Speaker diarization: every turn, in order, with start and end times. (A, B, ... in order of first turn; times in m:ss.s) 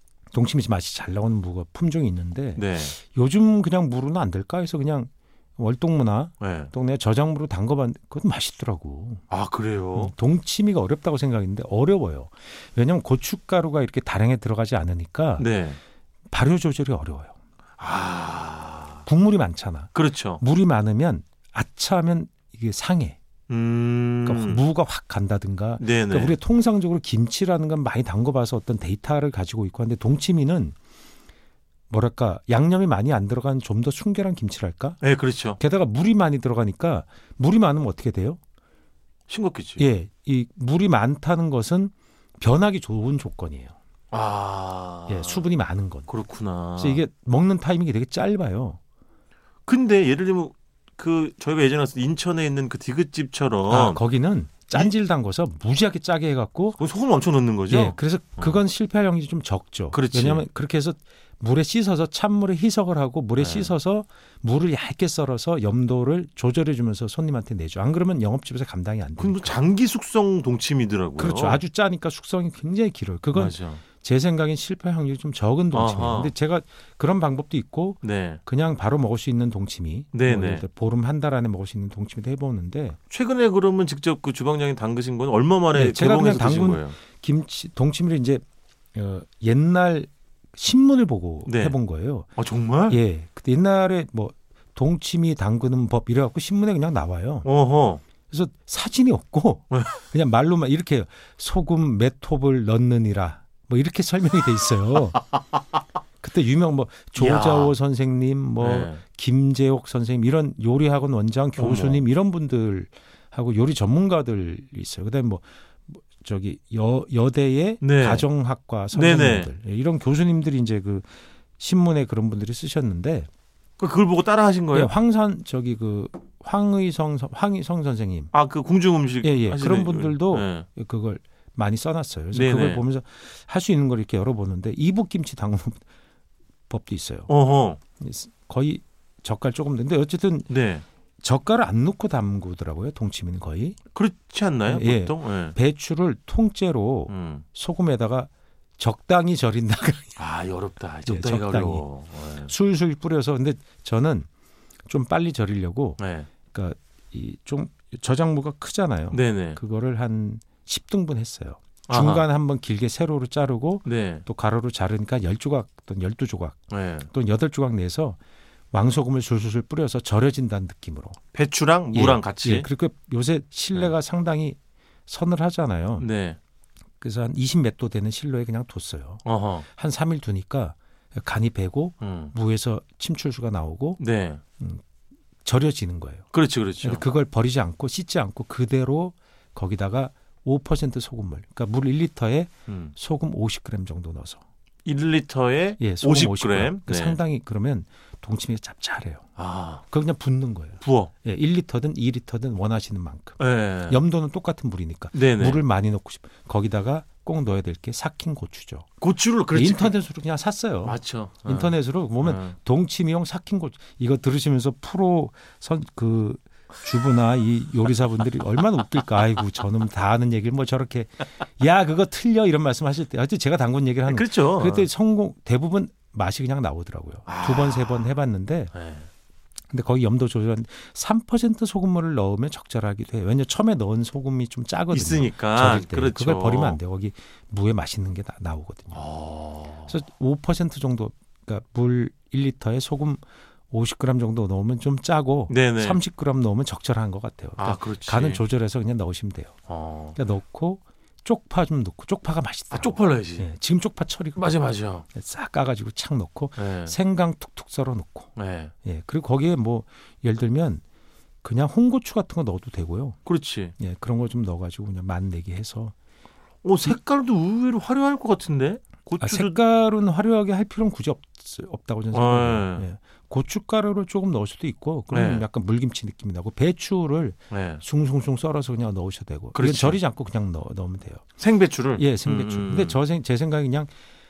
0:00.3-0:09.2 A
0:02.6-0:03.0 B
0:06.4-0:06.7 B
0:09.3-0:10.1 B
0:09.9-0:15.5 A
0:15.4-0:15.8 B
0:16.3-0:17.4 A
0:17.8-0:19.1 B
0:19.1-0:23.2 A
0:19.9-0:20.4 B
0:23.5-0:24.6 B
0:24.2-0:30.8 A
0:25.8-0:26.4 B
0:31.9-0:35.0 A
0:35.0-0:35.6 B
0:35.6-0:38.4 A
0:39.3-0:39.9 B
0:39.8-0:43.7 A
0:44.1-0:45.5 B
0:45.1-0:46.1 A
0:46.1-0:47.0 B
0:46.8-0:48.8 A
0:49.7-0:54.0 B
0:53.7-0:56.8 A
0:56.8-0:58.6 B
0:57.7-1:09.6 A
0:59.9-1:00.5 B
1:03.4-1:03.7 B
1:09.2-1:11.6 B
1:11.2-1:23.0 A
1:13.3-1:13.8 B
1:15.7-1:16.3 B
1:18.0-1:18.4 B
1:20.1-1:20.7 B
1:23.1-1:27.0 B
1:25.7-1:32.3 A
1:31.5-1:31.8 B
1:32.4-1:33.0 B
1:32.9-1:37.5 A
1:37.4-1:38.0 B
1:38.3-1:45.3 A
1:39.7-1:40.0 B
1:46.2-2:03.3 A
1:47.2-1:47.8 B
1:48.6-1:49.0 B
1:51.6-1:52.0 B
1:57.8-1:58.3 B
1:58.9-1:59.5 B
2:03.8-2:04.9 B
2:04.7-2:08.3 A
2:08.3-2:10.7 B
2:09.2-2:15.8 A
2:12.3-2:12.9 B
2:16.7-2:17.3 A
2:17.3-2:17.8 B
2:18.0-2:20.5 A
2:20.5-2:20.8 B
2:21.2-2:23.8 A
2:24.0-2:25.6 B
2:24.7-2:30.2 A
2:27.1-2:27.4 B
2:30.2-2:32.5 B
2:31.1-2:31.8 A
2:32.4-2:34.3 A
2:34.9-2:48.2 A
2:36.0-2:36.3 B
2:39.1-2:39.6 B
2:41.9-2:42.3 B
2:43.9-2:44.2 B
2:46.7-2:47.1 B
2:48.7-2:51.2 A
2:51.3-2:52.7 B
2:51.9-2:56.1 A
2:56.0-2:56.4 B
2:57.0-3:04.0 A
2:59.2-2:59.7 B
3:02.0-3:02.3 B
3:04.0-3:04.4 B
3:05.4-3:06.3 A
3:06.3-3:07.1 B
3:06.8-3:14.4 A
3:12.7-3:12.9 B
3:14.8-3:17.2 B
3:15.8-3:19.3 A
3:19.4-3:19.8 B
3:19.8-3:28.9 A
3:20.8-3:21.1 B
3:23.4-3:24.0 B
3:25.1-3:25.7 B
3:29.0-3:30.0 B
3:29.5-3:48.7 A
3:30.8-3:32.6 B
3:44.1-3:44.9 B
3:47.3-3:48.1 B
3:48.7-3:49.1 B
3:49.7-3:59.1 A
3:54.9-3:56.8 B
3:58.9-4:00.0 B
3:59.9-4:09.6 A
4:05.5-4:06.0 B
4:07.6-4:08.4 B
4:09.7-4:10.2 B
4:10.2-4:20.8 A
4:12.7-4:13.5 B
4:14.4-4:15.1 B
4:16.6-4:17.0 B
4:18.4-4:18.7 B
4:21.4-4:23.2 A
4:23.3-4:23.7 B
4:23.8-4:25.9 A
4:26.6-4:29.6 B
4:29.2-4:41.2 A
4:32.1-4:32.9 B
4:35.1-4:35.5 B
4:37.5-4:37.8 B
4:39.5-4:40.0 B
4:41.4-4:43.0 B
4:42.0-4:43.9 A